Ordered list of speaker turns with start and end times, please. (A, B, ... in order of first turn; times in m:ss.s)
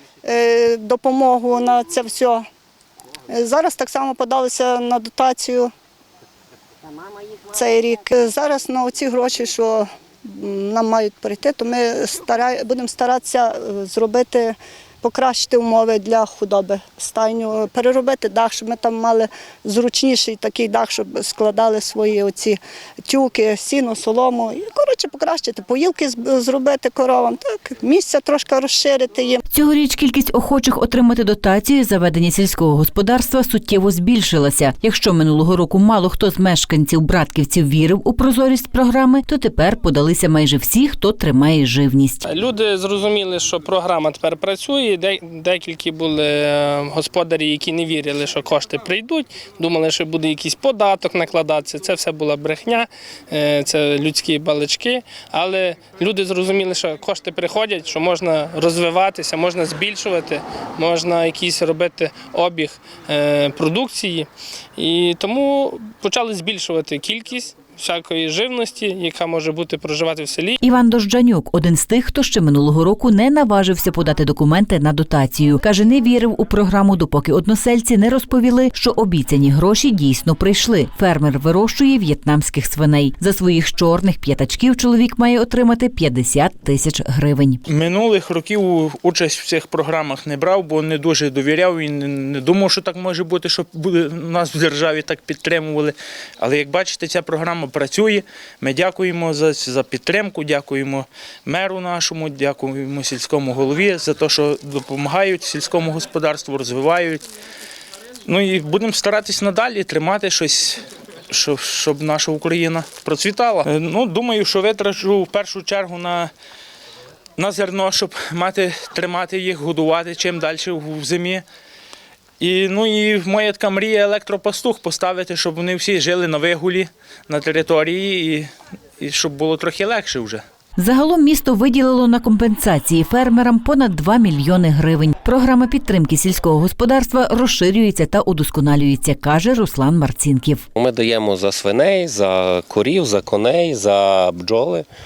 0:00.2-0:02.4 A
0:03.3-0:05.7 A
0:07.5-0:29.4 A
0:29.5-0:42.3 B
0:42.2-1:10.6 C
1:10.6-1:27.6 B
1:27.7-1:47.2 D
1:48.3-1:56.3 D
1:57.4-2:01.4 D
2:02.4-2:08.5 D
2:09.0-2:10.4 D
2:10.8-2:20.7 B
2:20.8-2:24.9 E